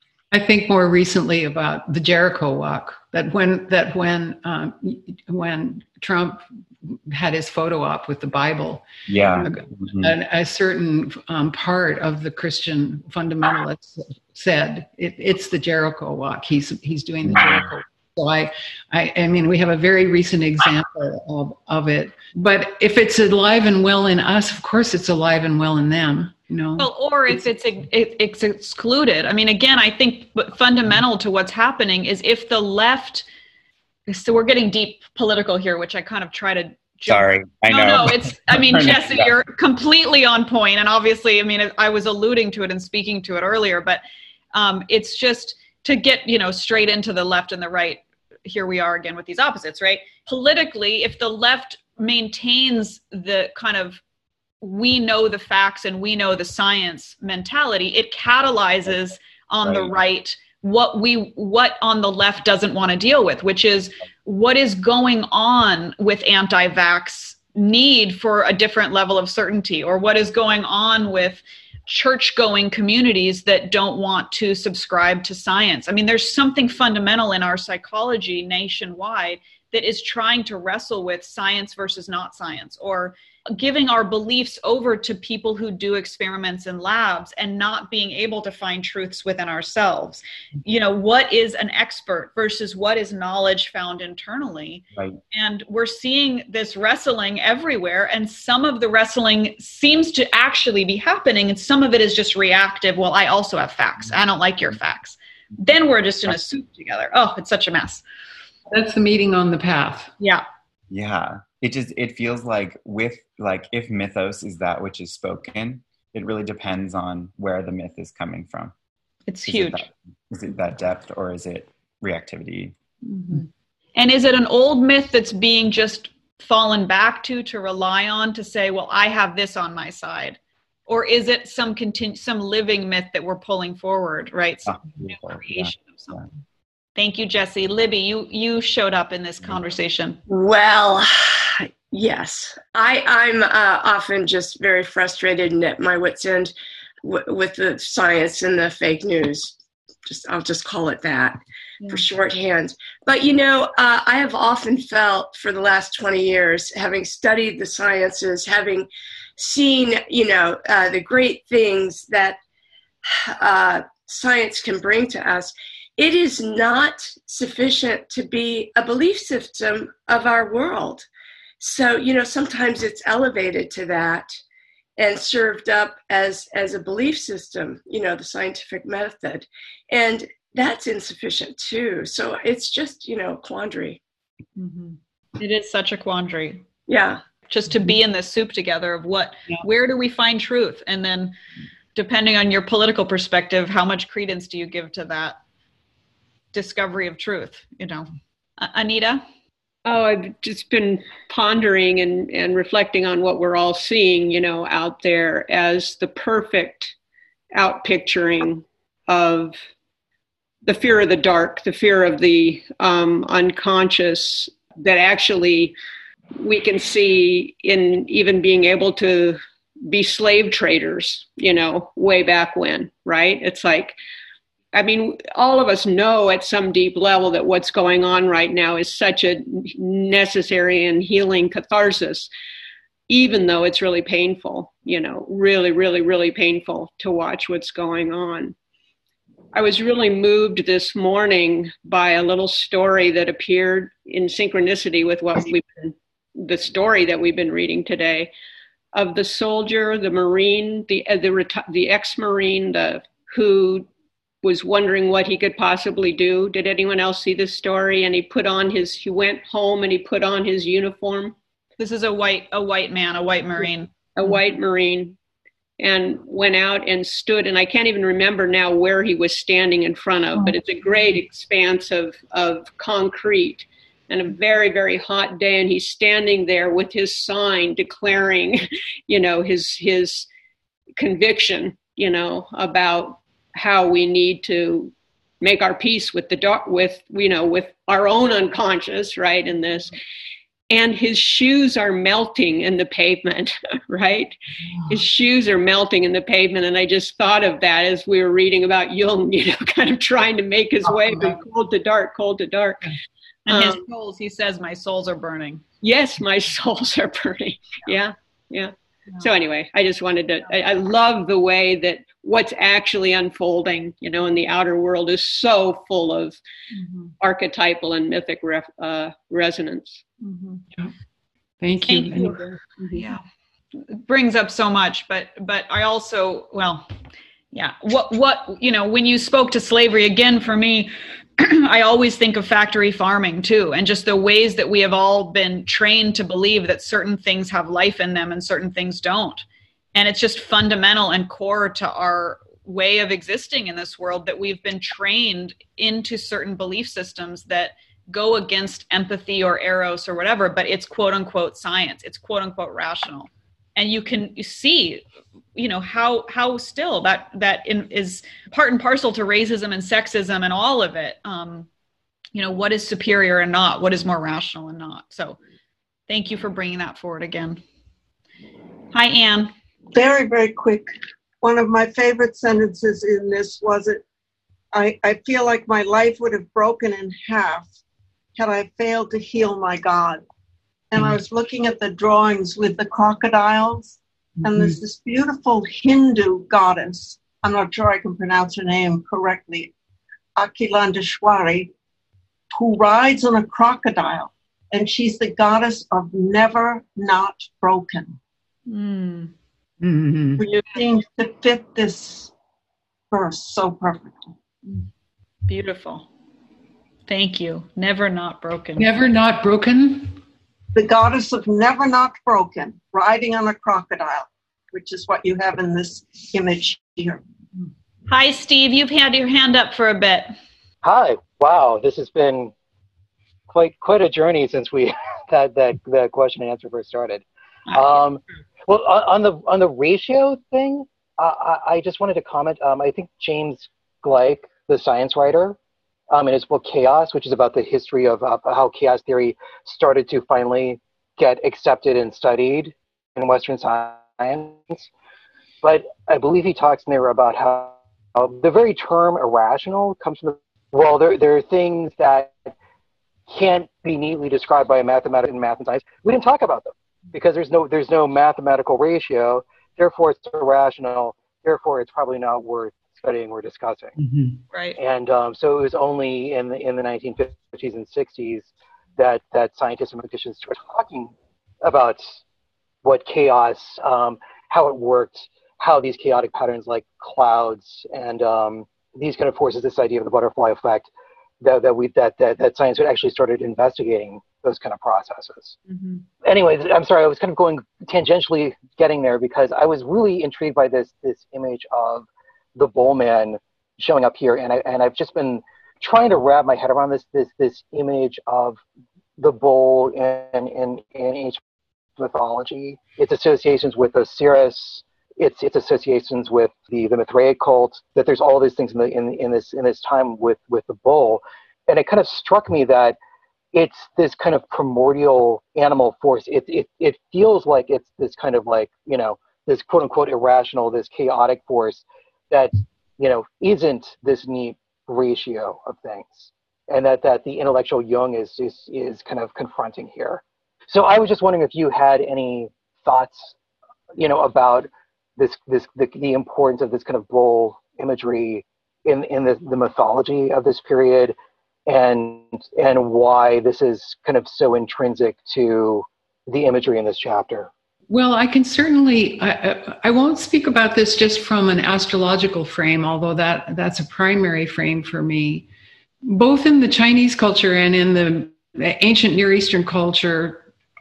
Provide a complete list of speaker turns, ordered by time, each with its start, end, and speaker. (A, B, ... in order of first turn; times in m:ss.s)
0:00.3-0:08.8 A
0:09.1-0:10.1 B
0:09.4-0:27.4 A
0:26.8-0:33.2 C
0:34.1-0:44.0 C
0:37.1-0:39.3 B
0:44.5-0:54.0 C
0:54.6-1:48.0 C
0:59.6-0:59.9 B
1:48.7-1:50.1 A
1:50.9-1:58.7 B
1:59.3-1:59.8 C
1:59.4-2:02.7 B
2:03.1-2:10.4 C
2:10.9-2:16.2 C
2:14.6-2:16.2 B
2:17.0-2:20.2 C
2:20.3-2:29.5 D
2:30.0-2:42.4 D
2:43.0-2:51.1 D
2:51.6-2:54.3 D
2:55.0-3:04.0 D
3:04.6-3:06.6 C
3:06.9-3:07.2 D
3:07.5-3:11.4 C
3:11.9-3:15.4 C
3:16.5-3:19.2 C
3:19.8-3:26.9 E
3:27.5-3:29.6 E
3:30.6-3:35.7 E
3:36.4-3:44.0 E
3:44.7-3:52.3 E
3:53.1-3:58.5 E
3:59.5-4:08.3 E
4:08.9-4:13.9 E
4:14.4-4:21.4 E
4:21.8-4:23.9 C
4:24.1-4:25.2 E
4:25.8-4:40.3 E
4:41.0-4:49.9 E
4:50.7-4:54.3 E
4:54.9-5:02.9 E
5:03.5-5:05.6 C
5:03.5-5:03.8 E
5:05.8-5:16.4 E
5:17.2-5:20.0 E
5:20.2-5:20.6 C
5:21.6-5:22.5 A
5:21.9-5:22.3 C
5:22.9-5:23.2 C
5:23.9-5:26.8 C
5:27.5-5:55.0 C
5:55.5-6:01.7 C
6:02.3-6:05.4 C
6:06.1-6:07.6 C
6:08.9-6:09.5 C
6:09.9-6:10.9 F
6:11.4-6:14.0 F
6:14.7-6:17.6 F
6:18.4-6:20.2 F
6:20.9-6:29.7 F
6:24.4-6:24.7 A
6:30.4-6:31.7 F
6:32.5-6:38.2 F
6:38.7-6:39.3 C
6:39.8-6:40.4 A
6:40.4-6:42.3 F
6:43.1-6:44.3 F
6:45.5-6:46.1 C
6:47.1-6:48.9 C
6:48.8-6:50.2 A
6:50.7-6:57.2 F
6:58.1-7:00.3 C
7:00.8-7:02.5 G
7:03.5-7:15.6 G
7:07.7-7:08.0 C
7:16.1-7:24.9 G
7:25.6-7:32.5 G
7:33.3-7:44.0 G
7:44.5-7:44.8 C
7:44.8-7:52.2 G
7:52.8-8:00.9 G
8:01.4-8:05.6 G
8:05.7-8:06.0 C
8:06.2-8:18.6 G
8:19.2-8:21.4 G
8:22.0-8:33.0 G
8:33.5-8:53.3 G
8:54.0-9:01.1 G
9:01.7-9:07.5 G
9:07.9-9:15.5 A
9:16.0-9:20.5 A